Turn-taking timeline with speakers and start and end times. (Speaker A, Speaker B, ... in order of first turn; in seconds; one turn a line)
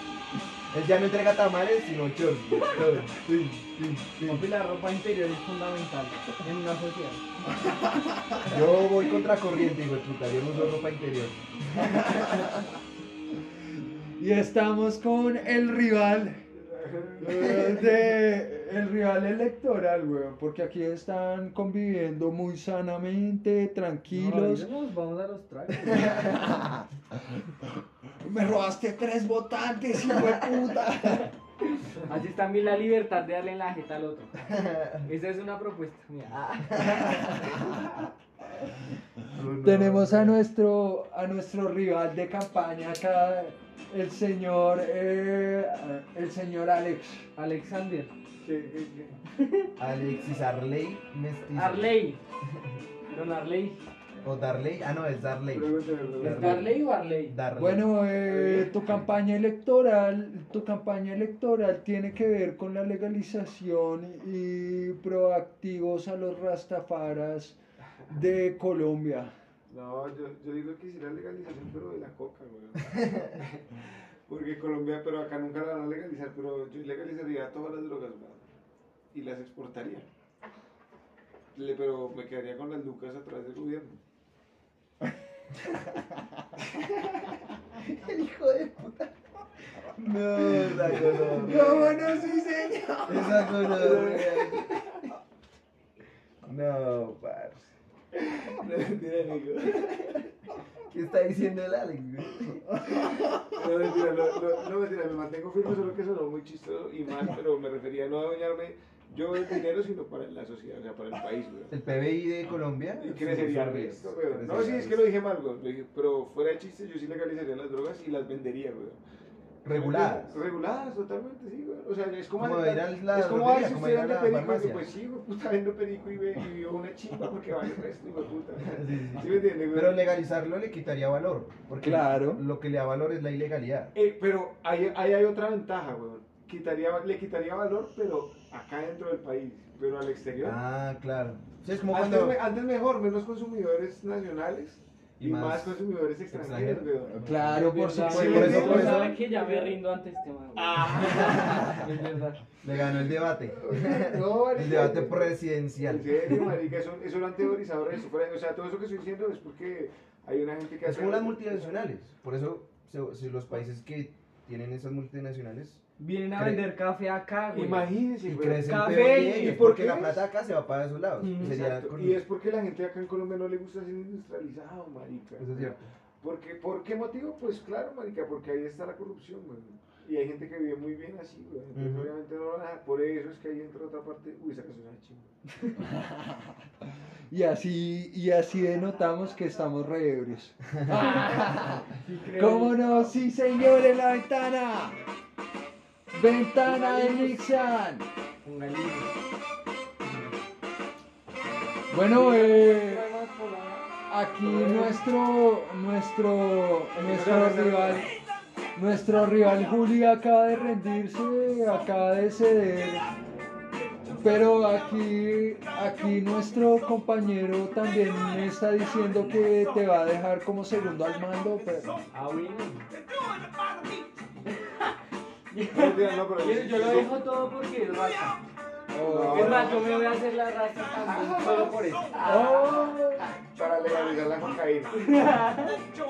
Speaker A: 0.7-4.5
Speaker B: 4.2-7.2
Speaker A: 8.5-12.5
Speaker C: 11.9-12.4
Speaker C: 14.2-16.4
Speaker D: 16.5-17.7
Speaker C: 17.2-24.7
Speaker B: 24.1-26.5
Speaker C: 26.1-27.3
Speaker C: 28.2-31.3
Speaker B: 31.9-34.5
Speaker A: 34.5-35.1
Speaker B: 35.0-37.6
Speaker A: 39.4-40.3
Speaker C: 39.6-47.3
Speaker B: 47.4-48.1
Speaker D: 48.4-49.2
Speaker B: 49.3-49.7
Speaker A: 49.8-51.9
Speaker B: 51.5-52.2
Speaker B: 53.1-53.9
Speaker A: 54.2-57.9
Speaker D: 55.5-56.7
Speaker B: 56.2-57.4
Speaker C: 57.5-67.6
Speaker C: 68.1-69.3
Speaker D: 69.7-78.5
Speaker D: 79.1-80.1
Speaker D: 81.5-84.0
Speaker A: 87.8-89.1
Speaker A: 89.9-91.9
Speaker D: 90.4-91.7
Speaker C: 91.4-93.9
Speaker A: 93.1-94.7
Speaker D: 93.8-94.5
Speaker A: 96.4-97.7
Speaker D: 98.2-100.2
Speaker A: 100.9-102.9
Speaker D: 103.5-111.7
Speaker A: 111.7-115.1
Speaker D: 113.0-119.0
Speaker A: 119.7-120.4
Speaker D: 119.7-130.0
Speaker A: 122.4-124.9
Speaker A: 128.6-133.9
Speaker C: 131.8-132.4
Speaker D: 133.9-140.6
Speaker A: 140.4-142.4
Speaker D: 141.9-149.8
Speaker A: 145.2-149.2
Speaker C: 147.1-149.1
Speaker B: 147.5-152.4
Speaker D: 150.6-151.8
Speaker A: 151.0-151.8
Speaker A: 152.6-156.4
Speaker D: 153.5-161.7
Speaker A: 160.8-166.6
Speaker B: 166.0-167.9
Speaker D: 167.5-170.2
Speaker A: 168.3-172.2
Speaker B: 168.6-169.8
Speaker B: 171.2-171.6
Speaker D: 171.4-185.3
Speaker A: 175.4-175.8
Speaker A: 181.7-182.1
Speaker C: 185.8-186.5
Speaker C: 187.3-195.0
Speaker B: 191.9-193.1
Speaker C: 196.1-198.1
Speaker B: 196.7-197.7
Speaker B: 198.4-199.1
Speaker C: 201.9-203.1
Speaker D: 202.1-203.9
Speaker C: 204.1-208.1
Speaker D: 204.5-204.9
Speaker B: 204.6-204.9
Speaker D: 206.9-208.1
Speaker C: 208.8-213.0
Speaker C: 214.2-221.9
Speaker B: 222.1-222.9
Speaker B: 224.5-224.9
Speaker B: 225.5-228.4
Speaker D: 225.7-227.2
Speaker C: 228.9-229.7
Speaker D: 228.9-230.1
Speaker B: 229.3-232.9
Speaker D: 231.0-232.9
Speaker C: 232.2-233.3
Speaker D: 233.4-235.3
Speaker B: 235.0-235.8